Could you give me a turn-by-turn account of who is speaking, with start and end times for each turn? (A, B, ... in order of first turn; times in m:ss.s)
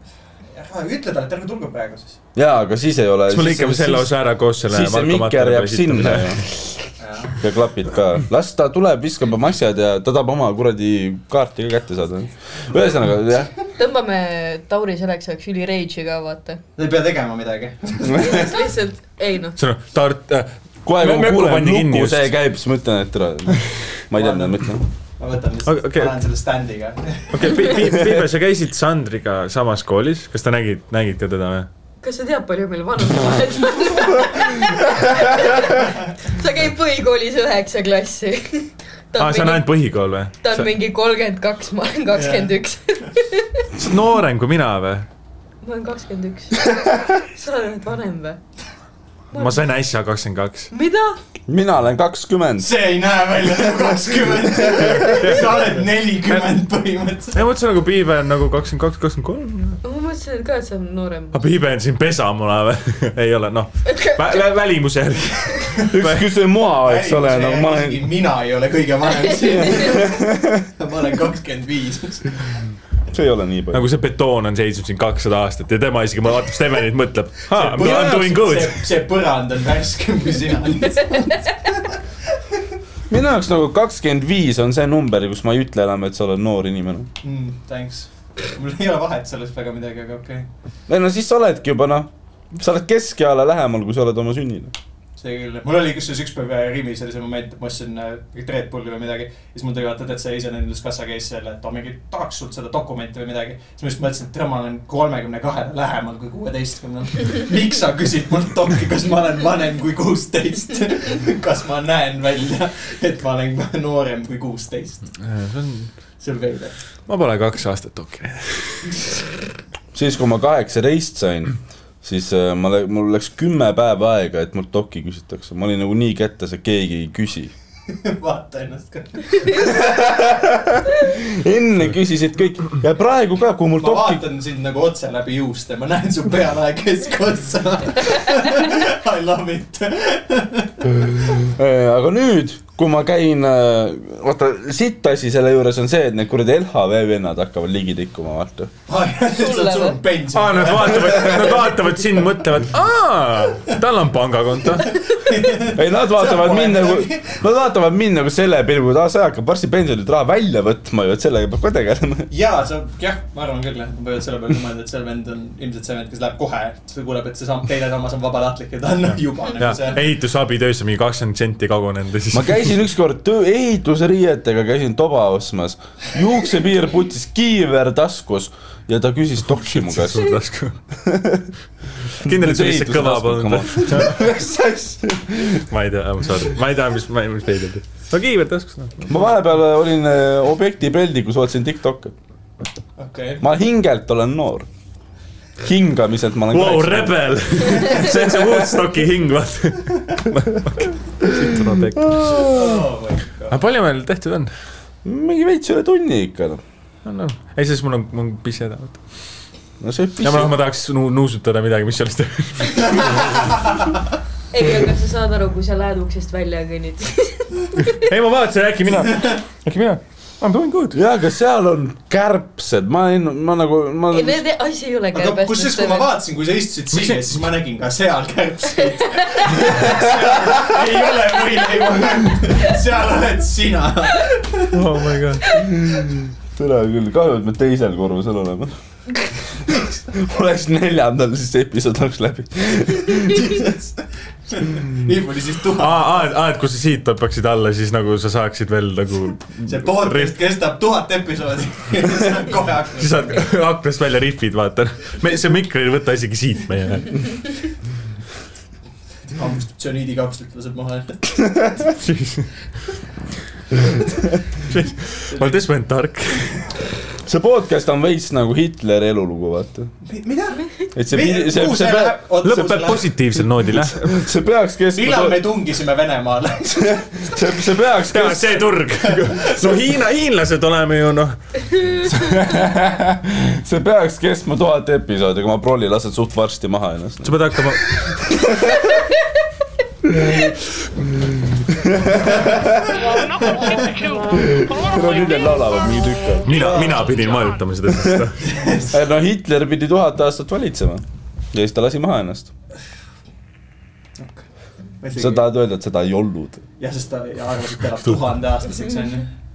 0:00.5-0:02.2 A
0:02.4-0:04.1 B
0:03.3-0:06.7 C
0:04.7-0:06.4 B
0:07.0-0:07.4 A
0:07.4-0:13.5 B
0:13.8-0:16.6 D
0:16.8-0:18.5 A
0:18.1-0:18.5 B
0:18.2-0:19.6 D
0:19.6-0:22.3 C
0:20.8-0:24.8 B
0:24.2-0:24.6 A
0:25.2-0:27.6 A
0:25.7-0:26.2 C
0:27.3-0:31.7 C
0:27.8-0:28.2 B
0:32.0-0:39.8 D
0:39.2-0:40.8 C
0:40.4-0:43.7 D
0:42.2-0:42.6 A
0:43.8-0:45.1 C
0:45.6-0:48.4 D
0:49.3-0:49.6 D
0:49.3-0:50.7 C
0:50.7-0:51.2 D
0:51.5-0:52.7 B
0:52.6-0:57.4 A
0:53.8-0:55.2 B
0:55.0-0:55.8 C
0:57.4-0:59.8 C
0:59.8-1:01.4 D
1:01.3-1:06.2 C
1:03.9-1:04.4 D
1:05.9-1:08.1 B
1:06.8-1:12.4 A
1:09.4-1:10.0 D
1:09.7-1:10.6 B
1:13.1-1:13.9 B
1:13.7-1:18.8 C
1:17.5-1:22.0 A
1:17.8-1:18.2 B
1:23.1-1:27.1 B
1:27.2-1:30.5 A
1:30.9-1:34.7 B
1:35.2-1:55.1 A
1:55.2-1:55.9 C
1:56.2-1:56.8 A
1:57.1-1:58.9 C
1:59.9-2:07.5 B
2:07.9-2:10.3 A
2:09.5-2:14.2 B
2:13.8-2:21.2 A
2:21.4-2:28.7 B
2:28.9-2:31.6 A
2:29.4-2:30.0 D
2:30.3-2:35.0 C
2:35.0-2:37.4 A
2:35.7-2:42.3 B
2:42.3-2:50.1 A
2:49.6-2:52.8 C
2:52.3-3:00.4 B
2:59.8-3:00.8 C
3:01.0-3:01.5 B
3:02.2-3:04.3 C
3:02.2-3:05.6 B
3:05.7-3:09.1 C
3:09.1-3:12.1 B
3:13.0-3:13.4 A
3:13.4-3:14.7 B
3:15.6-3:17.2 B
3:16.5-3:22.5 C
3:17.9-3:18.7 B
3:21.2-3:22.7 B
3:22.4-3:23.6 A
3:23.5-3:24.5 C
3:25.0-3:26.6 B
3:27.0-3:29.0 C
3:29.8-3:30.5 B
3:30.2-3:33.5 C
3:33.0-3:33.8 A
3:34.5-3:38.0 D
3:37.8-3:41.0 C
3:40.9-3:44.4 B
3:44.1-3:46.1 D
3:45.1-3:54.8 A
3:46.9-3:47.2 C
3:49.2-3:49.7 D
3:54.7-3:55.5 C
3:55.4-3:55.8 D
3:55.5-3:58.7 B
3:59.6-4:03.6 B
4:03.2-4:06.3 A
4:05.8-4:10.4 C
4:09.7-4:13.4 A
4:13.0-4:17.3 C
4:19.3-4:21.4 A
4:22.0-4:22.5 C
4:24.6-4:26.7 C
4:25.3-4:25.6 A
4:27.2-4:29.9 B
4:30.0-4:33.1 A
4:31.0-4:32.2 B
4:32.4-4:34.2 C
4:33.7-4:35.5 B
4:35.0-4:37.0 A
4:36.6-4:38.7 B
4:38.1-4:41.4 C
4:39.0-4:39.8 A
4:42.0-4:48.9 B
4:47.2-4:48.0 C
4:50.0-4:52.9 B
4:52.3-4:54.0 A
4:54.3-4:56.8 B
4:56.4-4:58.7 C
4:58.4-4:59.0 A
4:58.9-5:02.5 B
5:04.2-5:04.4 A
5:05.0-5:05.5 A
5:05.2-5:06.6 B
5:06.8-5:09.3 A